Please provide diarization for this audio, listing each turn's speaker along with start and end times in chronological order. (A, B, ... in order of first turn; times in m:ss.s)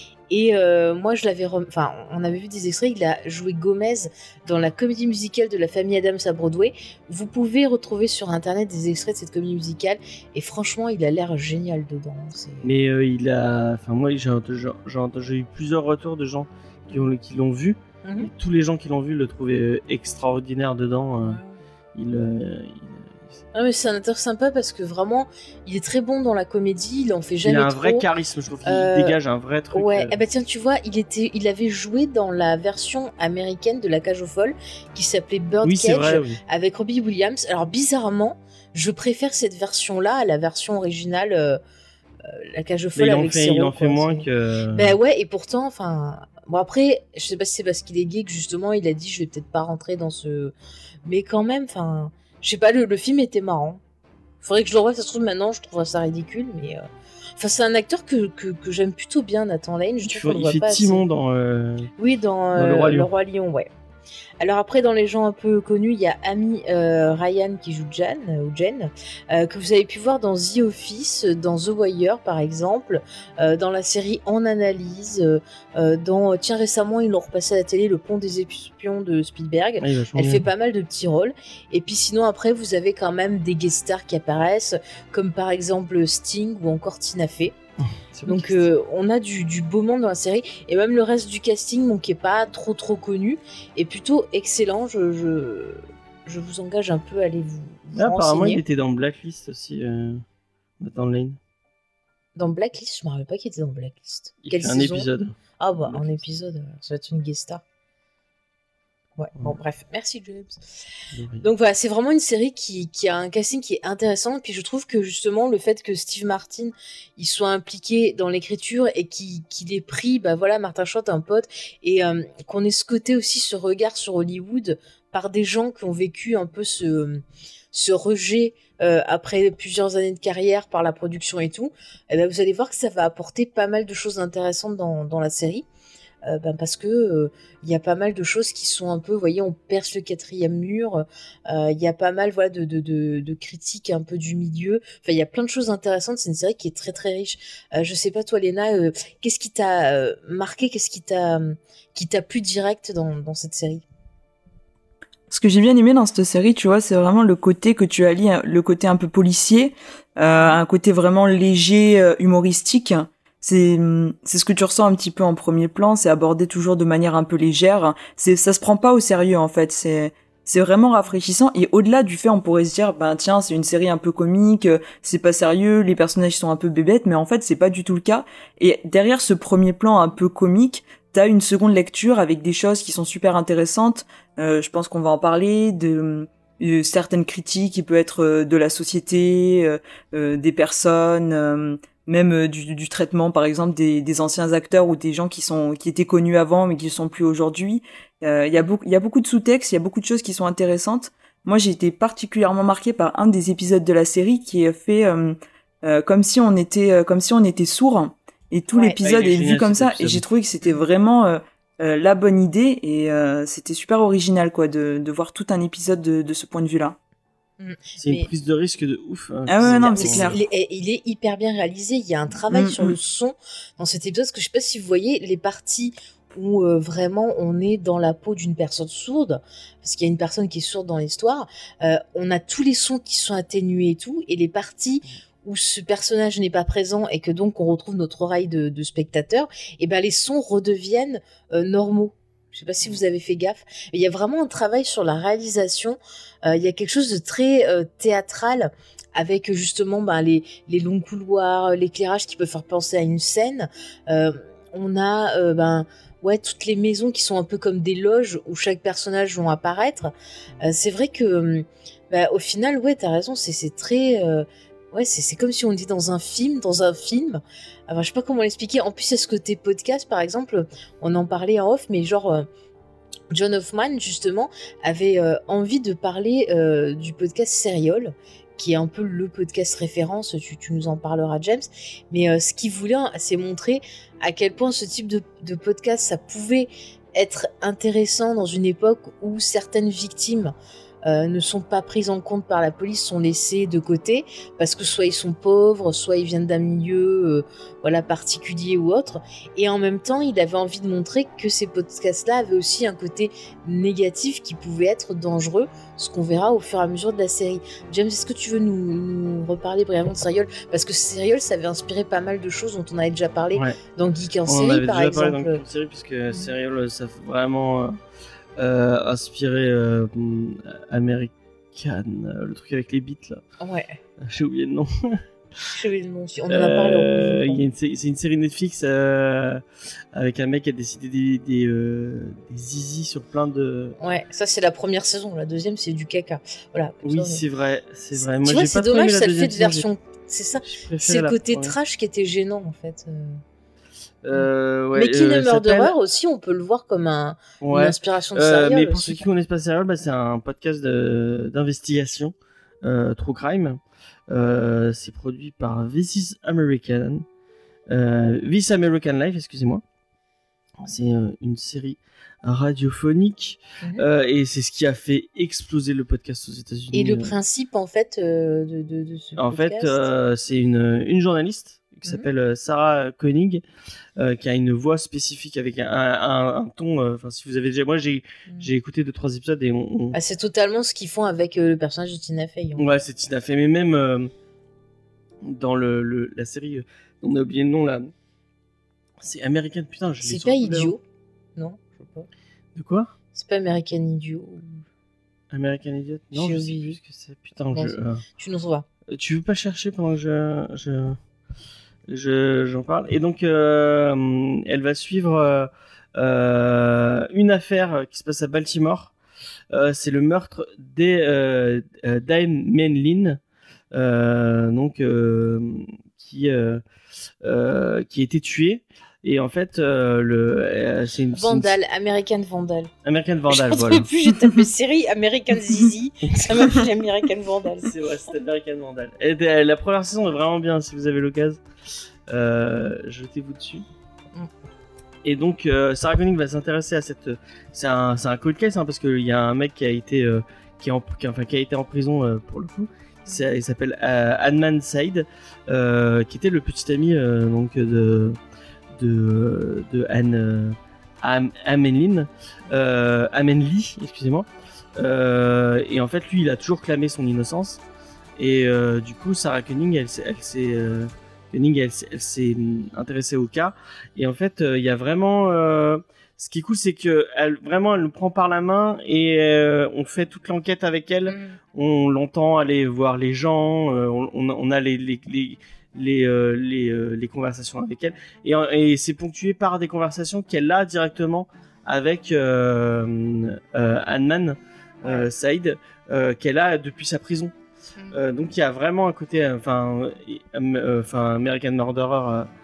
0:00.3-0:12.7 A
0:12.6-0:21.4 B
0:18.0-0:18.3 A
0:21.2-0:21.6 A
0:21.9-0:23.4 B
0:23.5-0:28.0 A
0:27.4-0:30.2 B
0:28.6-0:29.2 A
0:29.7-0:41.6 A
0:35.6-0:36.4 B
0:42.2-0:50.5 A
0:43.0-0:45.0 B
0:51.0-0:53.8 A
0:54.4-0:56.8 A
0:57.4-1:01.0 A
1:00.0-1:01.9 B
1:02.0-1:03.7 A
1:02.5-1:03.1 B
1:04.4-1:27.6 A
1:19.8-1:20.5 B
1:27.8-1:28.7 B
1:28.3-1:38.6 A
1:37.9-1:40.2 B
1:40.8-1:41.4 B
1:42.4-1:47.6 A
1:44.4-1:46.2 B
1:49.2-1:50.6 A
1:51.1-1:51.4 B
1:51.4-2:15.6 A
2:16.2-2:33.8 A
2:35.3-3:37.0 C
2:40.3-2:40.6 A
3:28.7-3:29.0 A
3:29.0-3:30.2 B
3:37.6-3:38.3 A
3:38.0-3:40.3 B
3:39.5-3:40.4 C
3:39.6-4:32.4 A
3:42.5-3:42.9 C
4:33.3-4:50.5 A
4:51.0-5:15.6 A
5:13.5-5:13.8 B
5:14.4-5:18.0 B
5:18.6-5:23.4 B
5:23.6-5:24.0 A
5:24.2-5:25.7 B
5:25.7-5:27.6 A
5:26.5-5:34.0 B
5:34.0-5:37.4 A
5:37.0-5:39.8 B
5:38.1-5:43.4 A
5:40.6-5:41.8 B
5:44.2-5:45.9 B
5:44.3-5:49.2 A
5:47.6-5:57.2 B
5:57.9-5:59.8 B
6:00.8-6:07.3 B
6:06.9-6:10.1 A
6:09.4-6:13.6 B
6:14.2-6:20.2 B
6:20.1-6:22.9 A
6:22.8-6:24.3 B
6:25.4-6:28.1 B
6:29.2-6:31.0 B
6:30.2-6:31.0 A
6:31.6-6:32.3 A
6:32.7-6:33.1 B
6:33.3-6:34.8 A
6:35.5-6:38.2 B
6:36.3-6:37.0 A
6:37.7-6:38.8 A
6:39.1-6:41.2 B
6:42.1-6:49.1 B
6:49.7-6:53.4 B
6:53.9-6:56.8 B
6:57.4-7:01.7 B
7:01.3-7:02.9 A
7:03.0-7:04.1 B
7:03.5-7:07.9 A
7:07.8-7:11.6 B
7:12.3-7:13.9 B
7:15.2-7:28.4 B
7:29.0-7:37.8 B
7:38.4-8:07.5 B
7:51.3-7:51.6 A
8:08.1-8:12.5 B